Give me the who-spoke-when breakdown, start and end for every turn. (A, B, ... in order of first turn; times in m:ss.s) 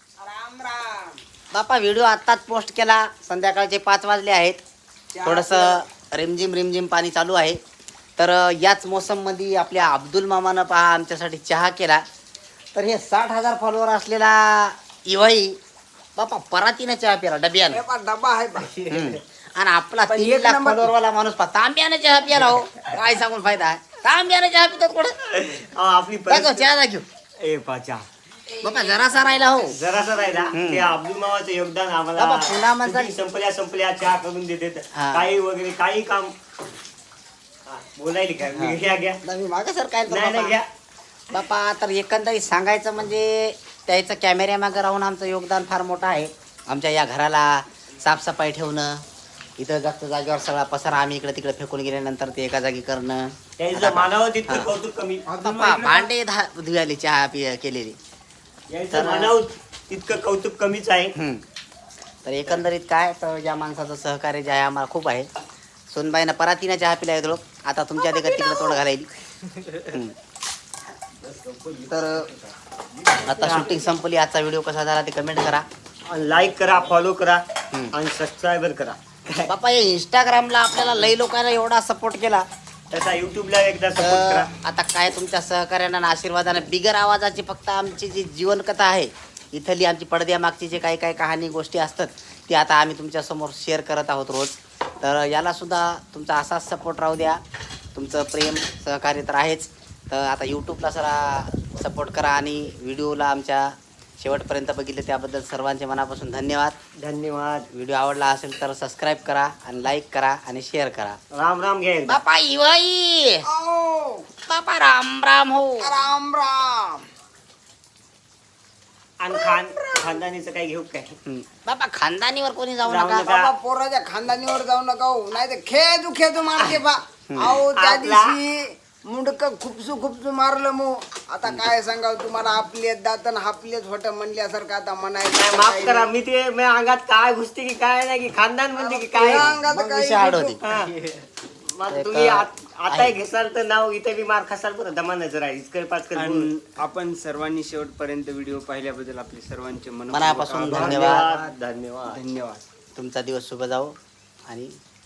0:00.2-0:01.2 A
0:01.5-0:04.6 B
0:05.1-0:05.8 A
0:05.2-0:07.6 B
0:08.2-0:12.0 B
0:12.7-0:15.6 B
0:16.2-0:17.8 B
0:17.7-0:18.9 A
0:18.9-0:25.5 B
0:20.0-0:20.9 A
0:25.4-0:26.7 C
0:26.3-0:27.0 B
0:27.4-0:28.0 C
0:28.6-0:29.8 B
0:29.7-0:36.3 C
0:30.5-0:31.0 B
0:32.2-0:33.1 B
0:34.9-0:35.3 B
0:37.7-0:39.2 C
0:38.5-0:40.6 B
0:40.1-0:40.7 C
0:41.3-0:49.0 B
0:49.6-0:54.7 B
0:53.6-0:55.3 C
0:55.4-0:56.0 A
0:55.4-0:58.0 B
0:58.7-1:01.1 C
0:58.9-0:59.3 B
1:01.2-1:01.4 B
1:02.2-1:05.3 B
1:05.9-1:09.1 B
1:09.8-1:10.2 B
1:11.2-1:12.5 D
1:11.9-1:12.3 B
1:13.2-1:15.7 B
1:13.4-1:13.7 C
1:16.1-1:19.5 C
1:19.4-1:22.5 B
1:22.9-1:24.5 C
1:24.0-1:37.4 B
1:38.0-1:46.8 B
1:47.0-1:47.7 C
1:47.7-1:51.2 B
1:51.3-1:52.2 C
1:52.1-1:53.4 B
1:53.4-1:54.3 A
1:54.5-1:55.9 B
1:55.8-1:57.0 A
1:59.2-2:01.2 C
1:59.4-2:00.1 A
2:01.3-2:03.3 B
2:02.8-2:03.5 C
2:03.2-2:16.1 A
2:07.3-2:07.6 B
2:07.7-2:08.4 C
2:15.3-2:19.5 C
2:18.8-2:20.6 A
2:19.2-2:20.6 B
2:20.6-2:20.9 C
2:21.7-2:26.5 C
2:21.9-2:23.1 B
2:26.2-2:31.4 D
2:30.1-2:31.2 B
2:30.7-2:32.2 C
2:32.1-2:32.6 D
2:33.0-2:33.9 B
2:34.5-2:34.7 B